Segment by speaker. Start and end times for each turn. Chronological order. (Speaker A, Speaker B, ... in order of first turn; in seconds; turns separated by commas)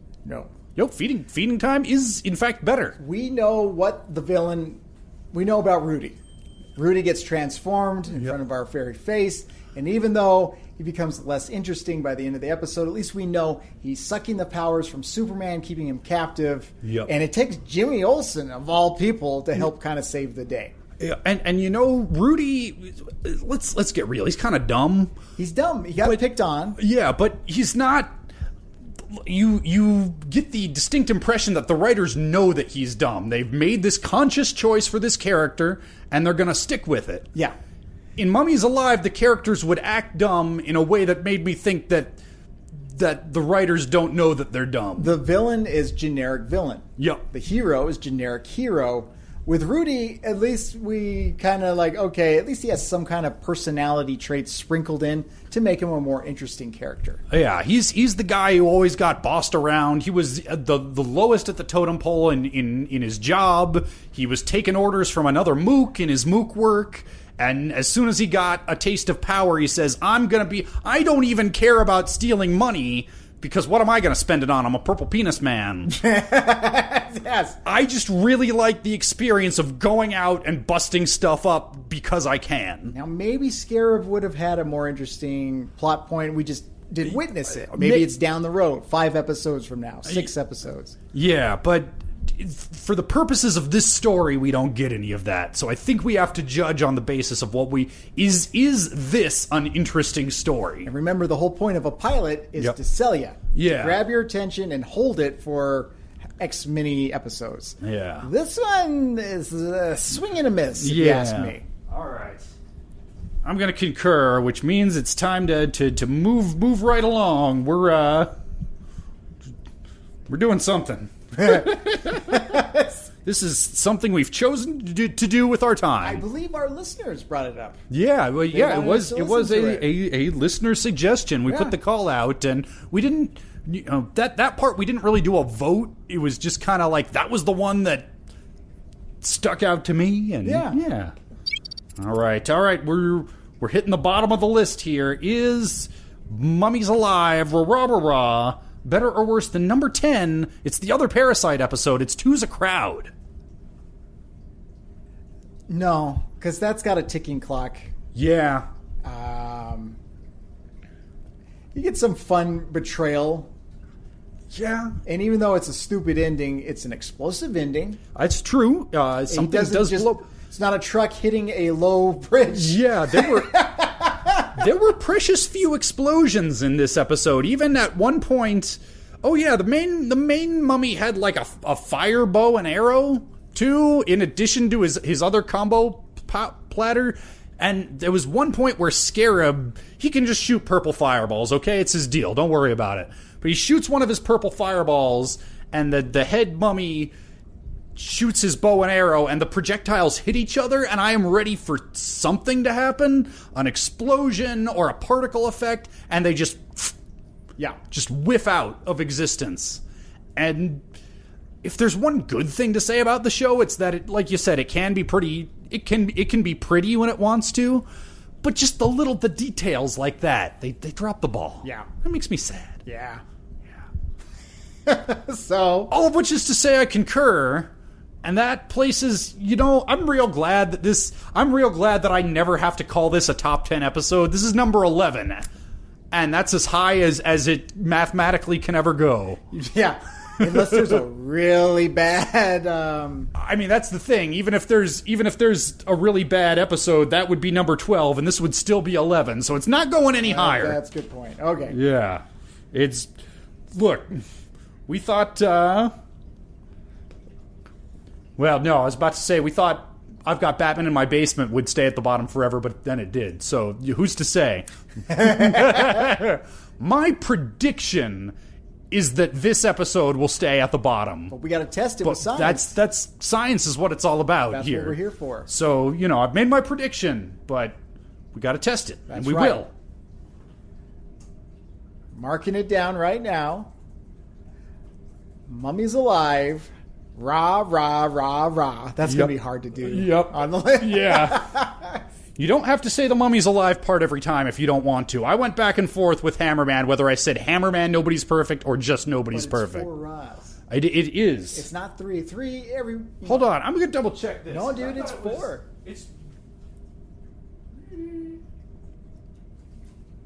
Speaker A: 0.2-0.5, Speaker B: 0.8-3.0, Speaker A: 3.0-4.8, Speaker A: 5.3-6.2, Speaker A: 6.8-20.7, Speaker B: 16.8-17.1, Speaker B: 21.0-25.1, Speaker A: 25.4-26.8, Speaker B: 26.8-28.2, Speaker B: 29.0-37.3, Speaker B: 38.1-42.2, Speaker B: 42.9-45.1, Speaker A: 45.0-57.2, Speaker B: 47.0-47.2, Speaker B: 57.3-75.9, Speaker A: 75.9-77.6, Speaker B: 77.6-82.9, Speaker A: 82.9-91.0, Speaker B: 87.0-88.1, Speaker B: 91.1-100.9, Speaker A: 100.8-111.6, Speaker B: 103.5-104.0, Speaker B: 107.8-108.3, Speaker B: 110.8-112.5, Speaker B: 113.4-118.3, Speaker B: 120.3-122.6, Speaker A: 121.3-123.0, Speaker B: 123.2-126.2, Speaker A: 126.0-127.8, Speaker B: 127.9-138.1, Speaker A: 128.5-129.9, Speaker A: 131.5-131.7, Speaker B: 139.2-141.1, Speaker A: 140.4-140.8, Speaker B: 142.0-153.1, Speaker A: 155.7-157.9, Speaker B: 158.1-158.7, Speaker A: 159.0-160.0, Speaker A: 161.7-163.5, Speaker B: 164.5-164.9, Speaker A: 165.0-168.0, Speaker B: 168.1-170.2, Speaker A: 169.3-174.6, Speaker B: 172.5-173.5, Speaker B: 174.5-197.1, Speaker B: 197.9-206.9, Speaker B: 207.9-209.8, Speaker B: 210.3-210.8, Speaker B: 211.6-217.9, Speaker B: 218.4-222.8, Speaker A: 221.6-221.9, Speaker A: 222.8-223.2, Speaker A: 224.8-225.9, Speaker B: 225.9-227.7, Speaker B: 228.2-235.5, Speaker B: 236.1-239.4, Speaker A: 239.5-243.3, Speaker B: 243.3-250.8, Speaker A: 250.2-251.8, Speaker B: 251.7-253.1, Speaker B: 253.7-254.2, Speaker B: 254.9-255.9, Speaker B: 258.4-268.3, Speaker B: 268.9-271.3, Speaker A: 271.3-272.7, Speaker B: 272.0-277.8, Speaker A: 274.5-275.5, Speaker B: 278.3-279.7, Speaker A: 279.1-279.6, Speaker A: 282.1-283.7, Speaker A: 285.5-292.0, Speaker B: 289.0-291.5, Speaker B: 292.4-299.9, Speaker A: 299.3-300.6, Speaker B: 300.7-301.6, Speaker A: 301.5-303.5, Speaker B: 303.2-306.1, Speaker A: 304.5-305.6, Speaker B: 307.9-308.4